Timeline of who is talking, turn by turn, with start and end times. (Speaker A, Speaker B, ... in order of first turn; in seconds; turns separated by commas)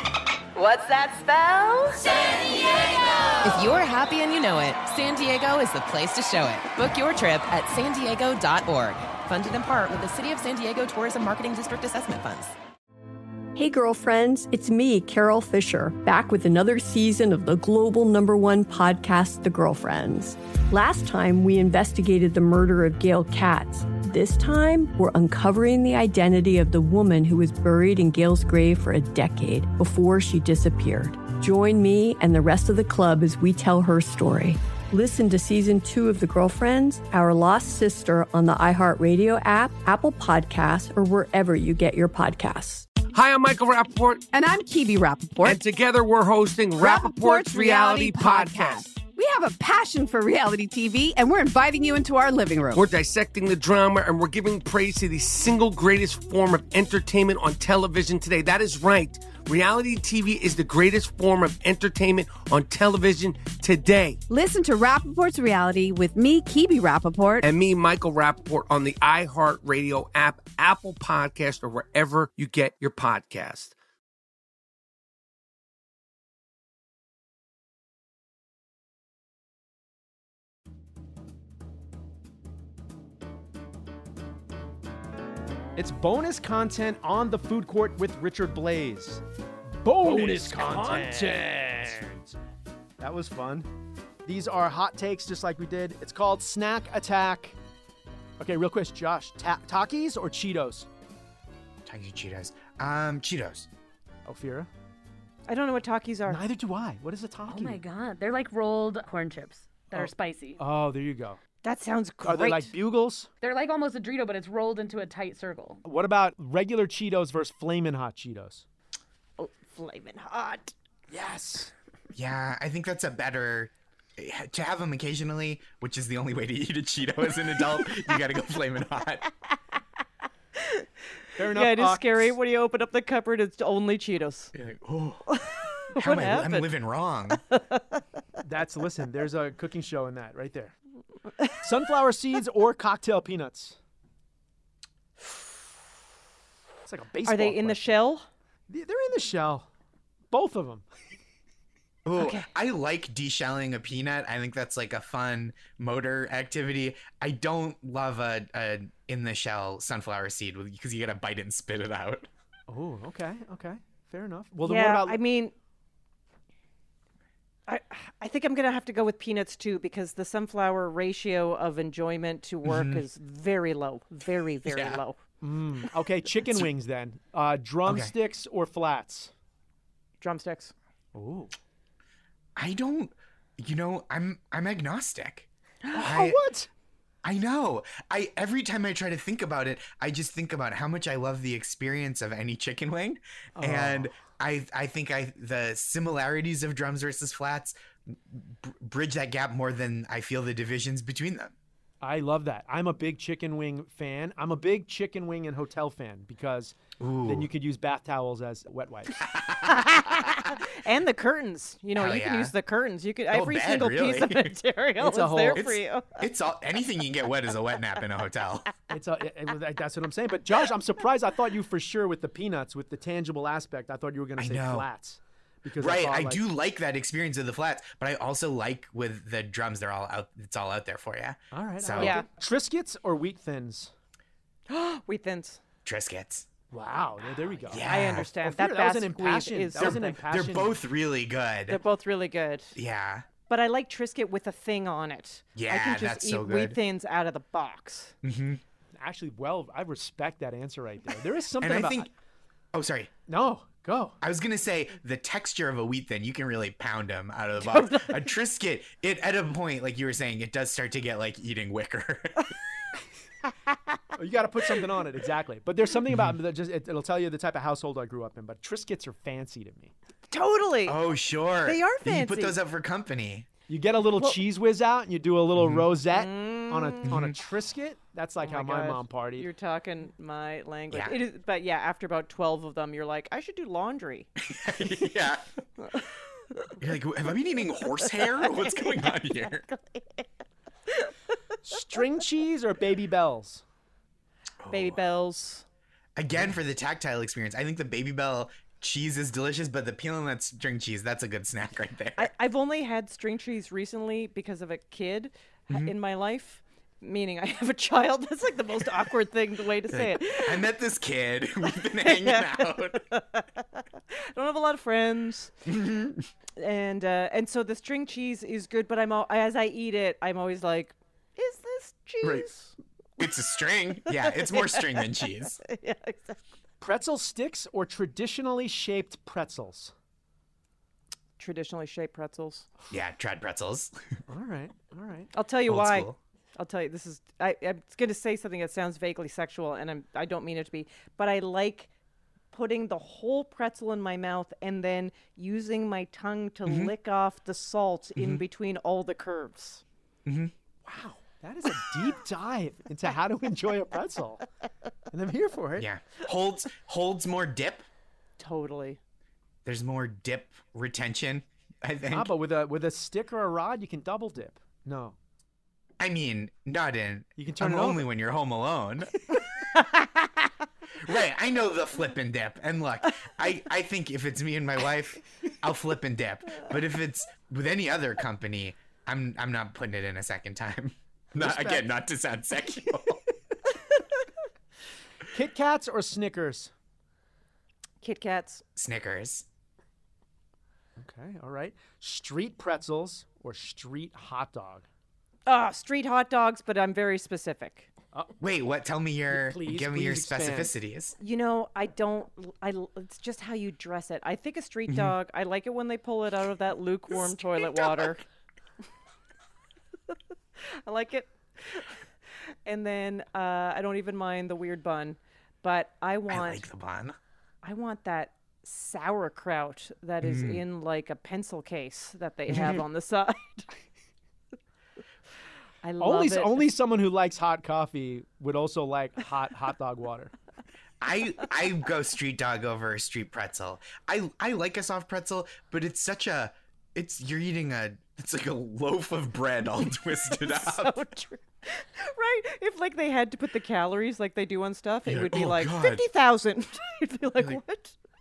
Speaker A: 0.6-2.0, Speaker A: 3.4-12.6, Speaker B: 5.0-5.3, Speaker B: 6.8-7.2, Speaker C: 13.6-42.9, Speaker D: 43.1-44.4, Speaker B: 44.3-45.6, Speaker D: 45.4-49.0, Speaker B: 46.8-52.9, Speaker D: 52.7-64.2, Speaker B: 64.3-67.5, Speaker D: 67.4-73.8, Speaker E: 85.8-89.2, Speaker E: 89.8-92.3, Speaker E: 93.0-93.7, Speaker E: 94.2-97.6, Speaker E: 98.4-100.9, Speaker F: 101.9-103.7, Speaker E: 104.3-104.7, Speaker G: 105.5-106.4, Speaker E: 106.3-107.8, Speaker H: 107.5-110.6, Speaker E: 109.9-111.4, Speaker G: 111.6-112.7, Speaker E: 112.2-113.3, Speaker H: 113.4-115.8, Speaker E: 115.8-118.7, Speaker G: 119.4-120.7, Speaker E: 121.1-121.7, Speaker F: 122.2-129.3, Speaker E: 131.4-132.3, Speaker G: 131.5-134.5, Speaker F: 134.6-135.2, Speaker G: 135.3-136.7, Speaker F: 136.0-137.4, Speaker G: 137.3-138.0, Speaker E: 138.5-140.7, Speaker E: 141.5-143.8, Speaker E: 146.9-148.1, Speaker G: 147.2-148.3, Speaker E: 148.7-149.7, Speaker E: 150.3-150.8, Speaker F: 152.1-162.3, Speaker G: 152.2-152.5, Speaker E: 162.7-165.2, Speaker G: 164.6-165.5, Speaker G: 167.7-175.2, Speaker F: 172.7-173.0, Speaker F: 174.7-175.0, Speaker E: 175.4-179.3, Speaker F: 177.9-178.1, Speaker G: 180.2-180.7, Speaker E: 181.2-181.5, Speaker F: 182.6-185.5, Speaker G: 185.8-186.3, Speaker E: 186.0-186.7, Speaker F: 186.0-186.4, Speaker F: 187.2-201.5, Speaker E: 193.6-194.2, Speaker E: 202.0-209.2, Speaker F: 207.0-207.5, Speaker F: 209.2-209.7, Speaker G: 209.6-216.2, Speaker F: 212.0-212.5, Speaker F: 213.3-214.5, Speaker E: 215.0-215.7, Speaker F: 215.6-218.7, Speaker E: 218.9-226.5, Speaker F: 224.4-224.9, Speaker F: 225.8-232.2, Speaker E: 231.5-233.9, Speaker G: 232.0-232.3, Speaker G: 234.7-235.6, Speaker F: 235.8-236.5, Speaker E: 236.7-240.8, Speaker F: 237.7-238.3, Speaker G: 237.8-240.2, Speaker F: 239.8-241.8, Speaker G: 241.7-242.8, Speaker F: 242.8-243.3, Speaker G: 243.5-248.1, Speaker F: 245.6-246.8, Speaker F: 248.2-248.6, Speaker E: 248.9-252.1, Speaker F: 251.6-252.1, Speaker F: 252.7-253.1, Speaker E: 253.3-254.2, Speaker F: 254.2-262.5, Speaker G: 257.6-258.3, Speaker E: 264.2-269.9, Speaker G: 270.3-272.6, Speaker F: 270.9-273.5, Speaker E: 273.7-279.5, Speaker F: 275.6-275.8, Speaker G: 276.1-277.1, Speaker F: 277.0-277.4, Speaker G: 278.4-284.3, Speaker F: 280.9-281.2, Speaker F: 284.4-285.5, Speaker G: 285.8-286.1, Speaker F: 286.8-289.7, Speaker G: 287.7-290.2, Speaker E: 291.6-293.6, Speaker F: 294.6-295.0, Speaker G: 294.7-295.6, Speaker F: 296.2-302.3, Speaker G: 302.2-310.7, Speaker F: 309.9-313.0, Speaker G: 312.0-315.6, Speaker F: 315.7-316.2, Speaker G: 316.6-322.8, Speaker F: 323.2-325.6, Speaker G: 324.1-326.4, Speaker E: 326.8-329.9, Speaker G: 331.4-332.7, Speaker F: 332.9-333.9, Speaker E: 334.3-335.3, Speaker G: 335.3-341.9, Speaker F: 335.7-336.2, Speaker G: 342.5-349.8, Speaker F: 346.7-346.9, Speaker F: 348.2-348.4, Speaker F: 350.3-350.5, Speaker E: 350.9-354.4, Speaker E: 355.1-355.9, Speaker F: 355.8-357.9, Speaker G: 358.4-359.0, Speaker F: 359.6-362.3, Speaker E: 362.1-365.1, Speaker F: 366.0-369.1, Speaker E: 367.4-368.1, Speaker F: 371.0-383.2, Speaker E: 381.4-381.9, Speaker E: 385.3-386.7, Speaker G: 388.0-388.6, Speaker F: 388.8-389.5, Speaker E: 391.0-394.9, Speaker G: 395.5-397.9, Speaker F: 398.4-401.1, Speaker E: 399.3-400.7, Speaker G: 401.2-408.2, Speaker G: 410.8-411.9, Speaker G: 412.7-416.7, Speaker F: 416.3-417.2, Speaker G: 417.6-423.7, Speaker F: 420.2-420.6, Speaker F: 422.5-422.8, Speaker G: 425.8-426.7, Speaker E: 426.0-430.3, Speaker F: 431.0-441.0, Speaker G: 440.3-447.9, Speaker F: 445.1-446.1